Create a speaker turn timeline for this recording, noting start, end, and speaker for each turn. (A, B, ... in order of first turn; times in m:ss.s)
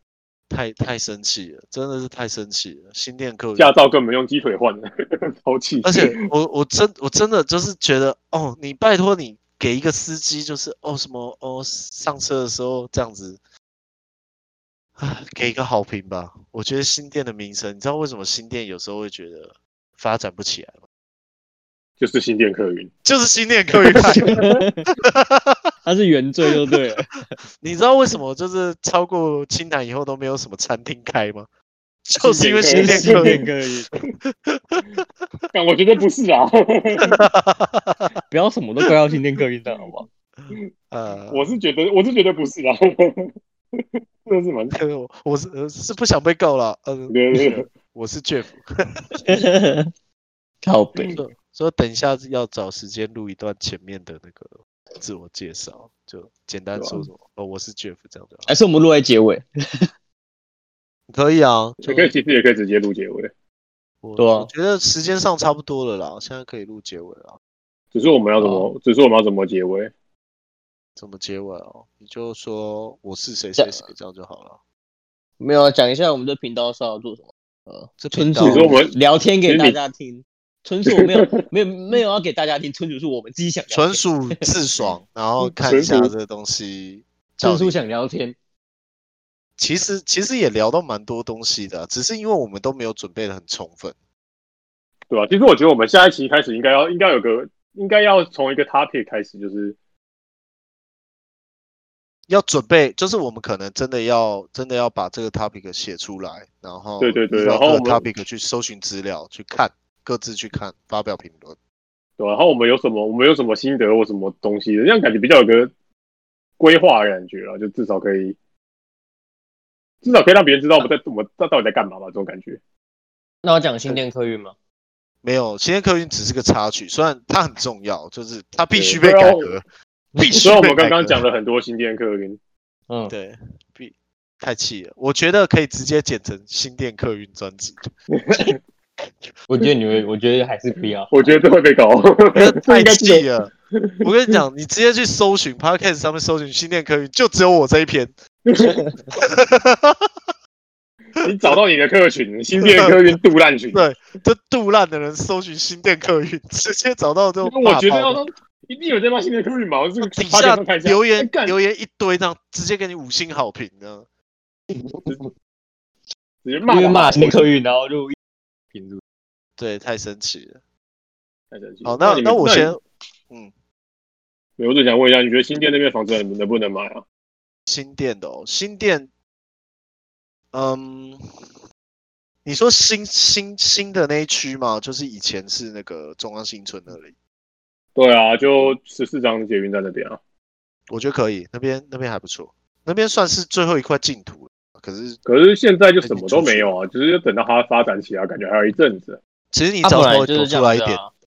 0:00.5-0:03.7 A
0:03.6-0:06.2 B
0:05.8-0:13.4 A
0:15.0-0:20.8 A
0:22.0-0:22.9 B
0:23.0-0:24.4 A
0:23.8-0:24.8 C
0:23.9-0:24.6 B
0:25.0-0:25.7 A
0:25.8-0:27.2 C
0:27.6-0:31.5 A
0:32.0-0:33.4 A
0:32.2-0:33.4 B
0:32.6-0:33.9 C
0:34.2-0:35.0 A
0:35.5-0:37.2 B
0:37.1-0:38.1 A
0:38.3-0:40.1 C
0:40.4-0:41.5 A
0:41.3-0:44.8 B
0:44.7-0:49.2 A
0:47.1-0:47.7 B
0:49.3-0:49.9 C
0:50.6-0:51.2 C
0:51.1-0:58.5 A
0:56.8-0:57.1 B
0:58.5-0:59.9 C
1:01.1-1:02.1 A
1:01.8-1:03.3 B
1:04.0-1:07.4 A
1:04.2-1:04.5 C
1:07.9-1:09.9 B
1:08.4-1:08.7 C
1:11.0-1:14.6 A
1:13.6-1:13.9 C
1:15.4-1:24.4 C
1:18.0-1:18.7 A
1:18.4-1:18.9 B
1:19.4-1:19.8 B
1:20.8-1:21.4 B
1:23.7-1:27.8 A
1:25.4-1:26.1 B
1:27.4-1:28.4 C
1:29.6-1:34.0 A
1:35.1-1:39.8 B
1:42.3-1:51.6 A
1:47.0-1:48.0 B
1:52.2-1:55.7 B
1:56.6-1:58.4 B
2:00.0-2:02.6 B
2:03.4-2:04.5 C
2:05.2-2:09.6 A
2:08.7-2:09.6 B
2:10.2-2:11.2 A
2:10.4-2:12.4 B
2:12.9-2:13.1 C
2:13.1-2:17.9 A
2:18.1-2:18.6 B
2:19.5-2:21.4 C
2:21.1-2:24.0 B
2:22.3-2:28.1 A
2:28.4-2:29.0 B
2:29.2-2:30.1 A
2:31.2-2:33.8 B
2:32.6-2:33.1 A
2:33.7-2:38.2 A
2:37.4-2:41.6 B
2:40.2-2:44.1 A
2:44.7-2:45.1 C
2:46.4-2:47.5 B
2:46.7-2:48.2 C
2:48.7-2:49.0 C
2:49.6-2:50.6 A
2:51.5-2:52.8 B
2:51.8-2:53.5 A
2:54.6-2:57.0 B
2:57.7-2:59.1 A
3:00.5-3:01.3 A
3:02.4-3:07.1 A
3:08.0-3:10.2 B
3:10.9-3:15.2 A
3:15.2-3:19.2 B
3:16.0-3:16.7 A
3:19.5-3:21.0 A
3:19.8-3:21.1 C